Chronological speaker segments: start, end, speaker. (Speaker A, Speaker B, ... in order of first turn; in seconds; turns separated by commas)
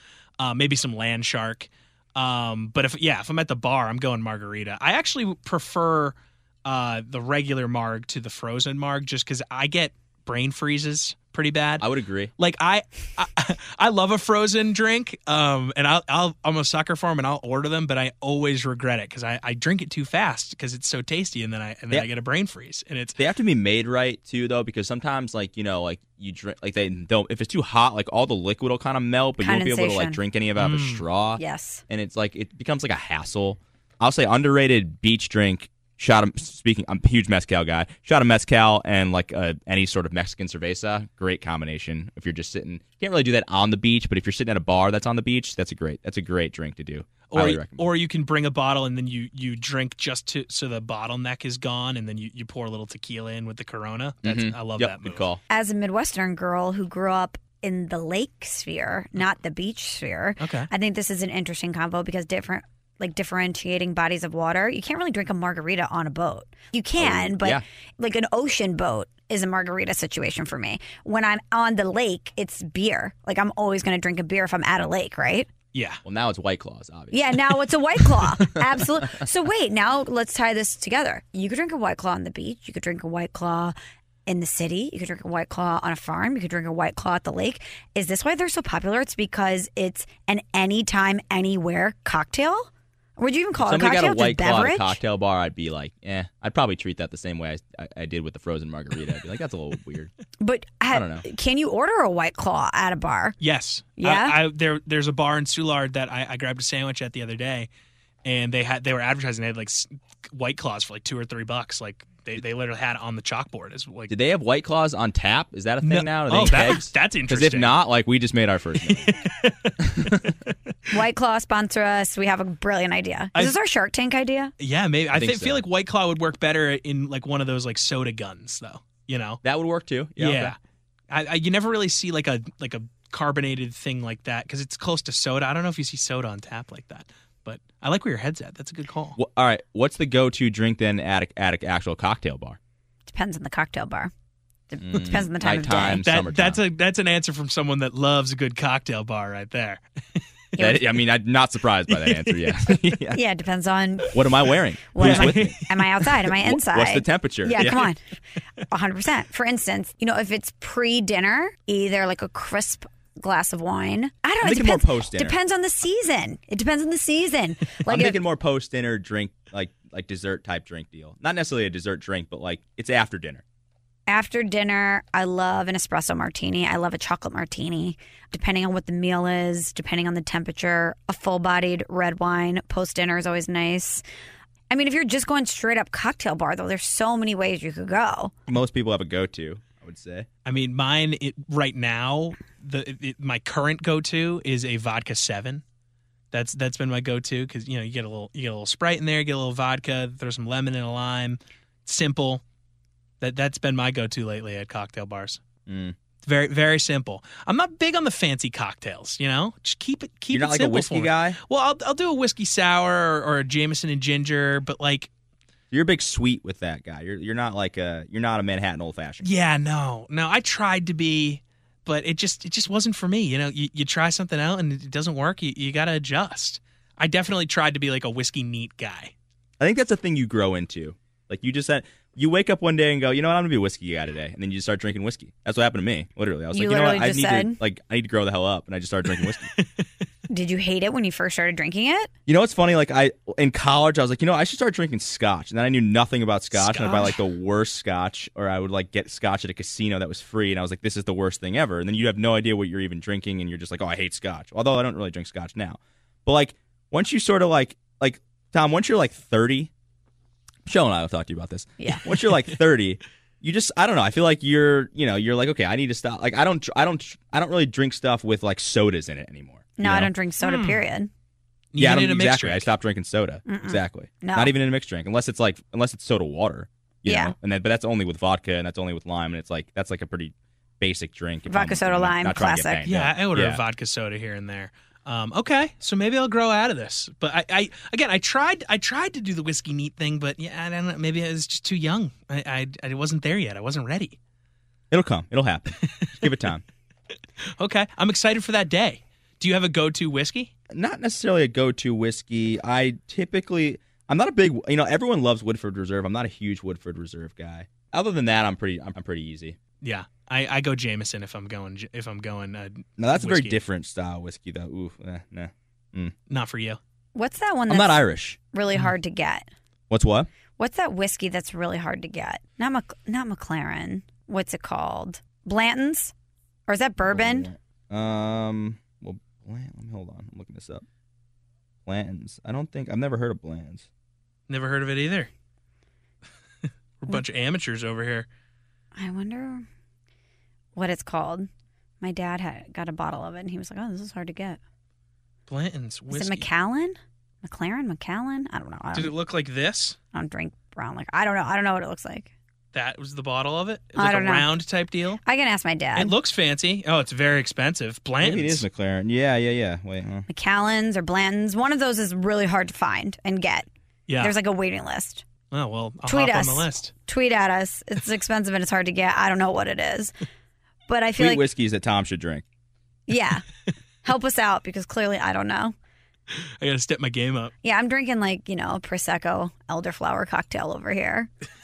Speaker A: 0.4-11.9, Speaker B: 11.8-12.3, Speaker A: 12.4-23.2, Speaker B: 23.2-47.9, Speaker C: 29.4-30.2, Speaker A: 30.6-31.1, Speaker C: 31.4-31.8, Speaker A: 47.3-55.2, Speaker B: 54.2-55.4, Speaker C: 55.5-75.5, Speaker A: 60.4-60.7, Speaker B: 67.0-67.6, Speaker A: 75.7-76.0, Speaker B: 76.0-77.5, Speaker C: 77.1-83.8, Speaker B: 78.4-79.0, Speaker C: 84.3-95.0, Speaker B: 93.6-100.1, Speaker C: 100.4-103.3, Speaker B: 100.9-101.2, Speaker A: 103.4-107.7, Speaker C: 104.0-104.4, Speaker A: 108.2-114.1, Speaker B: 114.1-119.2, Speaker A: 115.8-117.8, Speaker A: 118.9-120.5, Speaker B: 119.8-120.3, Speaker C: 120.9-124.5, Speaker A: 124.6-129.4, Speaker B: 125.1-125.6, Speaker B: 129.4-130.6, Speaker A: 130.2-130.6, Speaker A: 131.1-139.2, Speaker B: 139.2-142.6, Speaker C: 143.1-144.1, Speaker C: 144.7-146.0, Speaker B: 144.8-146.6, Speaker A: 146.0-150.2, Speaker C: 150.6-150.8, Speaker B: 150.6-153.2, Speaker A: 151.9-152.8, Speaker C: 153.1-154.3, Speaker B: 154.1-155.6, Speaker C: 154.9-158.0, Speaker A: 155.0-156.1, Speaker B: 156.2-157.9, Speaker C: 158.7-168.2, Speaker B: 164.4-165.4, Speaker B: 167.9-173.4, Speaker C: 174.1-184.0, Speaker C: 184.7-188.3, Speaker B: 188.5-190.3, Speaker A: 190.4-195.6, Speaker A: 196.3-202.4, Speaker A: 203.2-205.4, Speaker B: 205.7-206.0, Speaker A: 206.2-215.1, Speaker B: 210.3-211.4, Speaker B: 215.7-219.3, Speaker A: 219.2-229.1, Speaker B: 229.6-239.5, Speaker C: 236.5-237.6, Speaker A: 239.4-239.8, Speaker C: 240.3-242.1, Speaker B: 242.3-259.7, Speaker A: 246.5-247.2, Speaker B: 260.7-270.1, Speaker C: 261.8-262.0, Speaker C: 269.8-271.1, Speaker A: 270.4-270.8, Speaker A: 271.7-272.7, Speaker B: 271.8-283.6, Speaker C: 273.5-274.5, Speaker C: 277.1-277.3, Speaker C: 281.5-282.9, Speaker A: 282.9-294.2, Speaker B: 294.9-296.6, Speaker A: 297.6-300.5, Speaker B: 300.7-309.6, Speaker A: 309.8-313.6, Speaker B: 313.0-316.1, Speaker A: 316.3-316.8, Speaker C: 317.1-319.5, Speaker B: 317.7-318.4, Speaker B: 319.9-320.3, Speaker C: 320.6-326.1, Speaker C: 326.7-327.5, Speaker B: 327.0-330.9, Speaker B: 331.9-333.9, Speaker A: 334.5-335.3, Speaker A: 337.0-338.3, Speaker C: 338.9-339.7, Speaker C: 340.8-341.5, Speaker C: 342.0-344.6, Speaker A: 345.5-346.5, Speaker C: 346.1-349.1, Speaker A: 348.9-350.0, Speaker C: 350.1-352.3, Speaker A: 352.7-355.2, Speaker C: 354.0-354.5, Speaker C: 355.2-356.1, Speaker A: 356.0-358.6, Speaker B: 358.2-360.3, Speaker C: 360.3-363.7, Speaker A: 364.1-364.4, Speaker C: 364.2-365.2, Speaker A: 365.5-366.9, Speaker C: 366.1-370.1, Speaker C: 370.9-371.5, Speaker B: 371.2-372.4, Speaker C: 373.1-373.4, Speaker C: 374.0-375.8, Speaker A: 376.4-377.5, Speaker C: 377.6-381.3